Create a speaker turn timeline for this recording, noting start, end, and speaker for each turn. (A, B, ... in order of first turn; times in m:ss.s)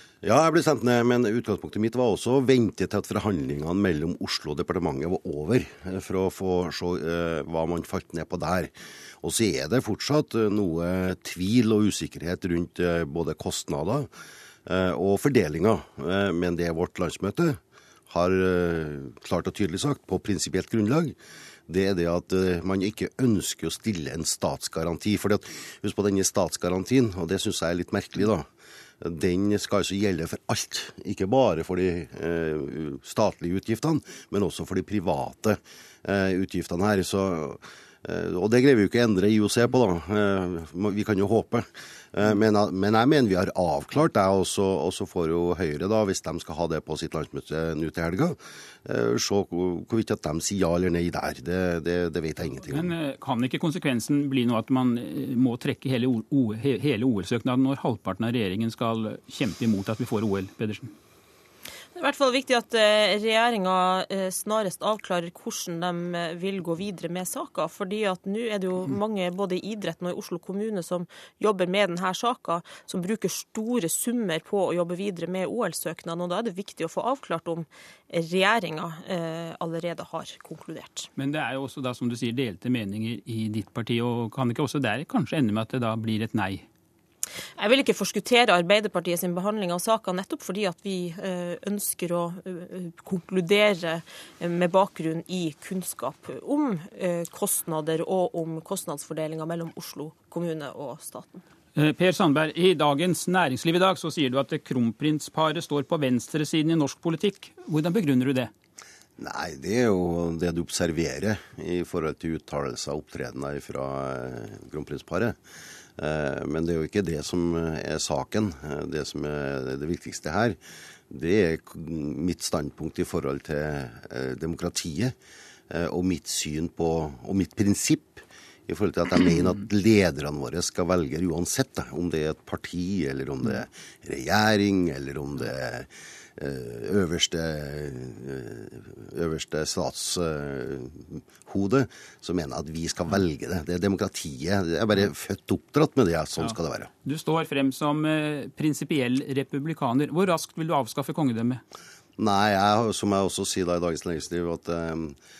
0:00.2-0:14.1 A
0:14.7-0:21.2 A
0:21.7-0:28.5 A
0:29.0-0:52.9 A
0:52.7-1:00.9 B
1:02.0-1:21.1 C
1:21.2-1:26.6 B
1:27.6-1:41.4 C
1:41.8-1:48.5 B
1:49.2-1:55.4 A
1:56.0-2:00.6 A
2:01.1-2:05.1 A
2:05.7-2:26.9 A
2:26.4-2:31.6 B
2:32.2-2:35.2 A